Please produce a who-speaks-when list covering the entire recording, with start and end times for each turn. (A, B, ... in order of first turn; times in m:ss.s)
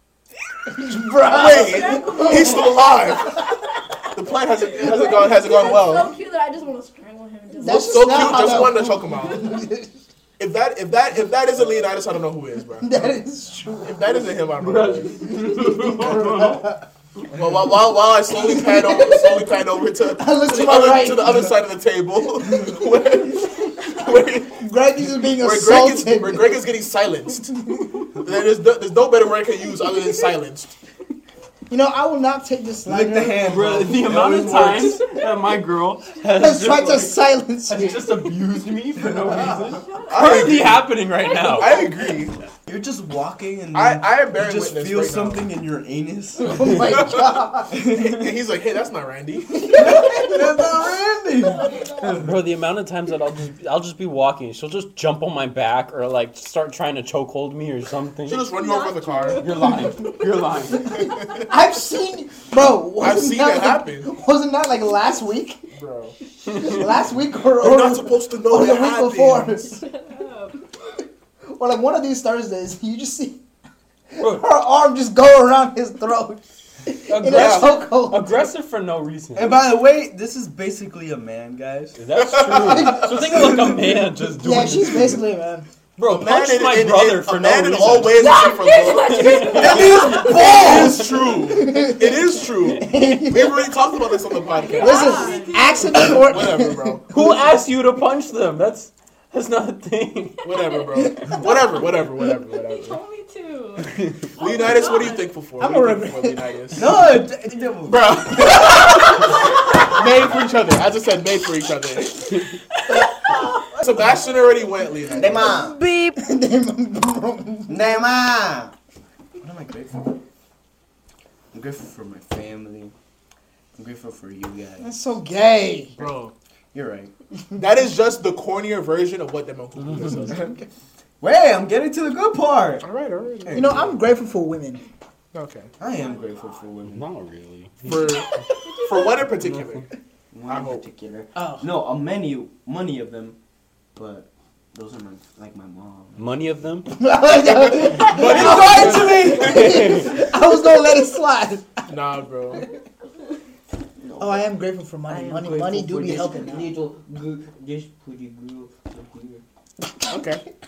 0:00.7-0:03.1 A
0:01.2-0:03.4 B
0:01.3-0:08.6 C
0:04.1-0:06.2 B
0:07.6-0:10.0 A
0:07.6-0:09.6 B
0:09.3-0:09.6 C
0:10.4-0:13.2 B
0:12.8-0:14.2 A
0:13.8-0:15.4 B
0:14.6-0:16.7 D
0:15.4-0:16.8 A
0:17.3-0:24.6 B
0:18.3-0:21.5 A
0:23.9-0:26.6 A
0:25.2-0:27.6 B
0:27.7-0:28.0 A
0:28.2-0:30.7 B
0:31.7-0:33.6 A
0:32.8-0:35.0 E
0:33.4-0:41.9 D
0:36.3-0:38.3 A
0:39.0-0:39.6 E
0:39.8-0:40.5 C
0:40.1-0:40.9 B
0:41.2-0:42.0 C
0:41.4-0:42.4 B
0:42.7-0:46.8 E
0:43.7-0:45.5 B
0:46.4-0:47.8 A
0:46.7-0:49.8 B
0:47.7-0:48.4 E
0:49.5-0:50.9 A
0:49.7-0:52.4 E
0:51.4-0:52.2 A
0:52.2-0:58.5 D
0:58.3-0:59.5 B
0:58.5-0:59.7 C
0:59.3-1:01.1 D
1:00.7-1:05.6 A
1:00.8-1:01.5 B
1:03.0-1:04.1 B
1:05.7-1:06.2 B
1:06.5-1:09.8 A
1:07.6-1:09.8 B
1:09.8-1:10.6 C
1:11.5-1:13.4 A
1:14.1-1:18.5 A
1:14.2-1:14.5 D
1:17.1-1:19.6 D
1:17.3-1:17.8 B
1:19.4-1:22.0 E
1:22.0-1:25.2 D
1:22.2-1:23.2 B
1:22.6-1:23.4 A
1:23.3-1:24.0 E
1:24.4-1:25.7 A
1:26.0-1:30.2 D
1:26.0-1:29.5 B
1:28.1-1:30.6 C
1:29.5-1:31.2 E
1:30.1-1:34.2 A
1:30.1-1:37.1 B
1:34.5-1:36.2 C
1:34.7-1:37.4 A
1:37.1-1:40.7 D
1:40.4-1:43.0 B
1:41.0-1:41.5 A
1:42.2-1:45.3 C
1:44.4-1:47.1 B
1:45.6-1:46.8 A
1:46.7-1:48.8 E
1:47.8-1:52.4 B
1:53.8-1:55.6 B
1:55.1-1:55.8 E
1:55.4-1:58.1 A
1:57.7-1:58.7 E
1:59.4-2:00.2 E
2:01.5-2:03.0 E
2:03.8-2:05.0 E
2:04.8-2:05.9 A
2:06.0-2:06.3 B
2:06.7-2:07.1 E
2:07.6-2:10.5 B
2:09.8-2:10.3 D
2:10.3-2:10.6 A
2:11.2-2:12.9 E
2:12.8-2:13.9 B
2:13.4-2:13.9 E
2:13.5-2:14.8 A
2:15.3-2:15.7 B
2:15.8-2:17.0 E
2:15.9-2:16.6 C
2:16.9-2:18.3 D
2:17.8-2:19.9 B
2:18.6-2:19.2 C
2:19.4-2:19.8 D
2:20.3-2:23.4 E
2:20.5-2:20.8 B
2:21.4-2:21.8 A
2:24.0-2:26.2 E
2:26.2-2:27.0 D
2:26.9-2:31.8 A
2:27.5-2:29.8 B
2:27.7-2:29.8 E
2:29.0-2:30.3 D
2:31.9-2:32.7 B
2:34.0-2:34.4 E
2:34.2-2:36.7 A
2:35.1-2:39.4 E
2:40.1-2:40.4 B